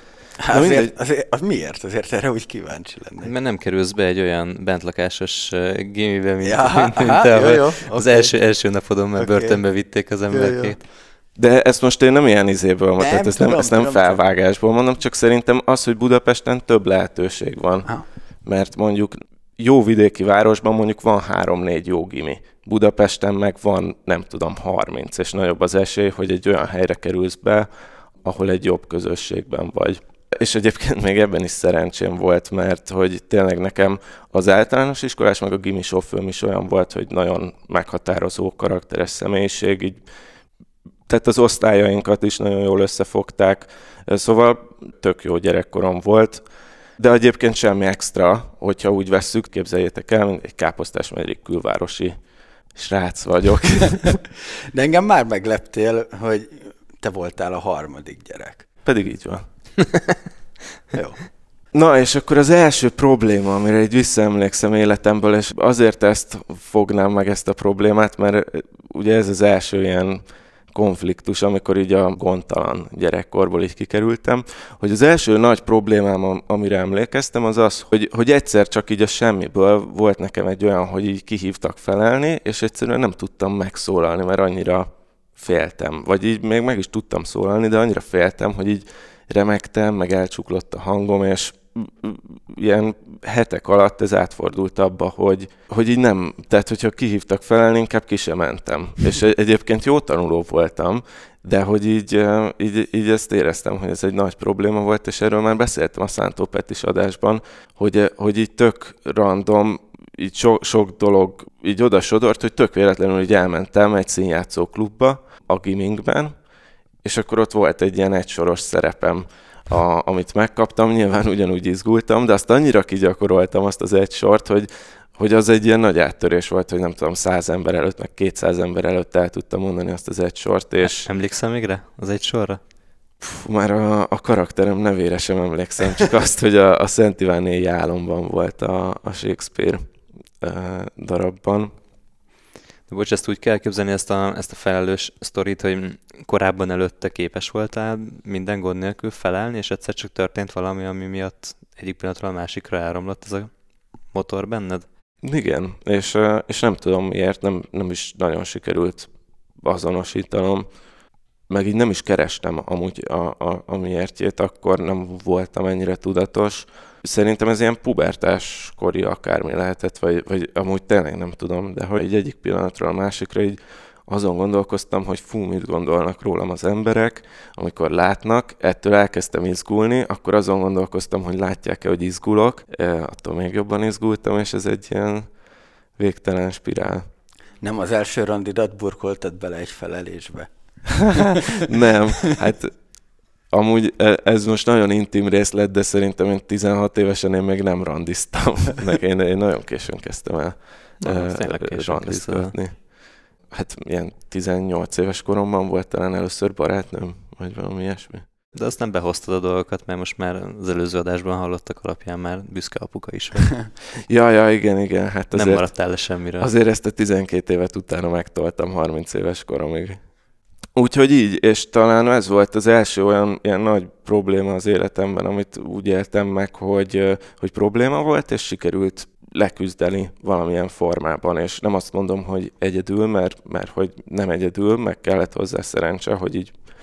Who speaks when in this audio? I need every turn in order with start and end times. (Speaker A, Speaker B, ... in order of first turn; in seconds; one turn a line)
Speaker A: 0.4-3.3
Speaker B: 0.5-0.9
Speaker C: 3.2-10.8
Speaker A: 6.4-8.3
Speaker A: 9.2-9.6
Speaker A: 10.3-10.7
Speaker B: 11.4-17.9
Speaker A: 13.0-14.2
Speaker B: 18.4-27.7
Speaker B: 28.2-40.0
Speaker B: 41.1-46.4
Speaker B: 47.0-52.1
Speaker B: 52.7-54.2
Speaker A: 54.4-58.6
Speaker B: 58.8-59.4
Speaker A: 60.9-61.2
Speaker B: 61.7-116.3
Speaker B: 117.0-131.1
Speaker C: 130.8-132.6
Speaker B: 133.2-139.8
Speaker B: 140.4-141.7
Speaker C: 142.9-153.5
Speaker C: 154.1-154.8
Speaker B: 155.2-160.7
Speaker B: 161.5-185.3
Speaker B: 186.0-187.0
Speaker A: 187.6-191.7
Speaker B: 191.0-192.8
Speaker B: 193.5-202.9
Speaker C: 201.0-202.5
Speaker B: 203.5-208.2
Speaker C: 208.5-213.7
Speaker B: 214.1-215.7
Speaker C: 215.3-216.5
Speaker B: 216.4-220.0
Speaker B: 220.7-236.5